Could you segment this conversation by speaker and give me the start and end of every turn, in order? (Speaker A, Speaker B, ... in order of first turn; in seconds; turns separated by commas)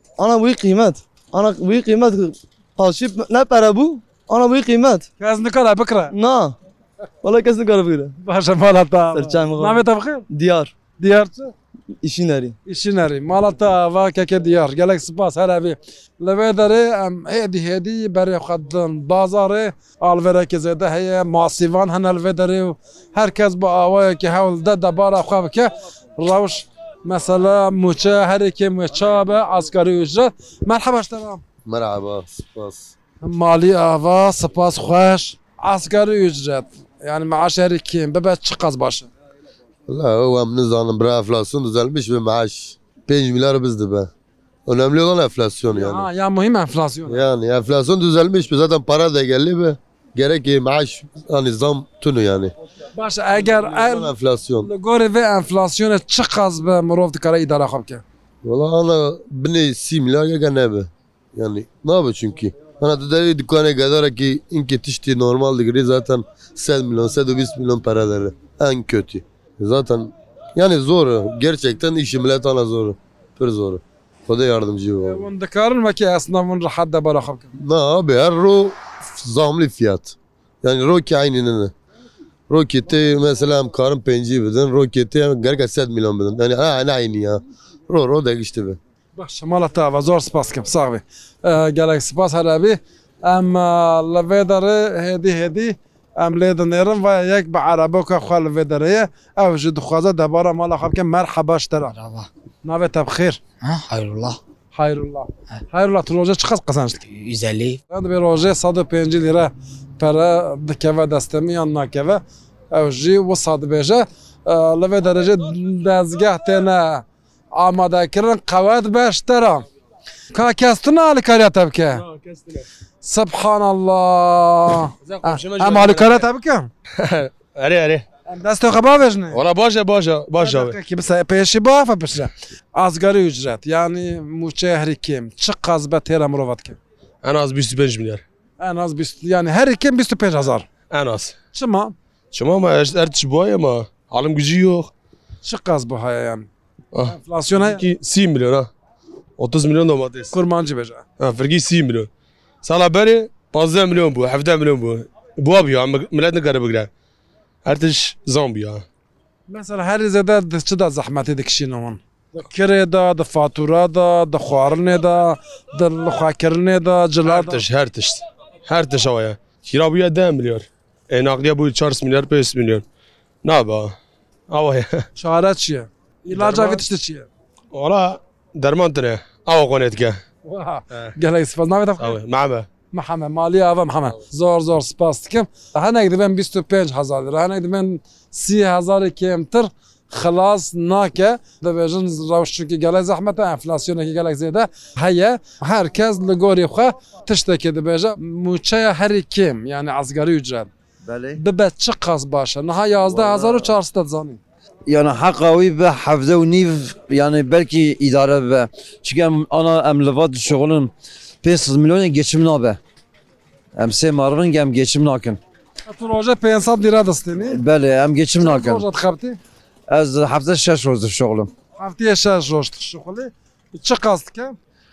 Speaker A: 0.2-5.1, Speaker B: 5.2-6.1, Speaker A: 6.1-6.5, Speaker A: 7.2-8.1, Speaker B: 8.2-10.3, Speaker A: 9.1-10.7, Speaker B: 11.0-11.5, Speaker A: 12.0-12.6, Speaker B: 12.7-31.4, Speaker C: 31.7-32.9, Speaker B: 33.2-39.1, Speaker C: 39.9-44.1, Speaker C: 44.7-46.1, Speaker B: 45.7-47.2, Speaker C: 47.1-52.5, Speaker B: 53.0-58.0, Speaker C: 53.6-54.7, Speaker C: 58.4-75.3, Speaker B: 75.0-77.5, Speaker C: 77.6-81.7, Speaker C: 82.5-88.8, Speaker B: 89.2-102.0, Speaker D: 102.0-102.3, Speaker B: 102.6-103.4, Speaker D: 103.9-104.2, Speaker B: 104.7-107.0, Speaker D: 107.2-107.5, Speaker B: 107.9-119.7, Speaker B: 120.3-122.0, Speaker E: 122.0-122.6, Speaker B: 123.0-126.7, Speaker E: 125.0-126.3, Speaker E: 127.0-128.1, Speaker B: 128.3-129.4, Speaker E: 129.3-130.8, Speaker B: 130.4-136.8, Speaker E: 137.2-138.2, Speaker B: 138.6-140.7, Speaker E: 140.9-141.4, Speaker B: 141.5-141.9, Speaker E: 142.3-144.9, Speaker B: 145.4-146.5, Speaker E: 146.9-148.7, Speaker B: 147.1-147.8, Speaker E: 149.4-150.3, Speaker B: 150.3-151.0, Speaker E: 151.2-152.1, Speaker E: 152.6-156.9, Speaker E: 157.6-158.8, Speaker B: 159.5-167.7, Speaker E: 167.3-172.8, Speaker E: 173.4-173.9, Speaker E: 174.5-175.1, Speaker B: 175.2-177.3, Speaker E: 176.3-176.8, Speaker E: 177.7-180.2, Speaker B: 180.5-182.2, Speaker E: 182.0-182.7, Speaker B: 182.9-200.7, Speaker D: 201.0-201.4, Speaker B: 201.4-204.4, Speaker D: 203.1-203.7, Speaker D: 204.9-210.9, Speaker D: 211.4-212.8, Speaker D: 213.8-215.4, Speaker B: 215.9-217.6, Speaker D: 217.4-218.8, Speaker B: 218.4-219.4, Speaker D: 219.9-221.5, Speaker B: 221.8-224.6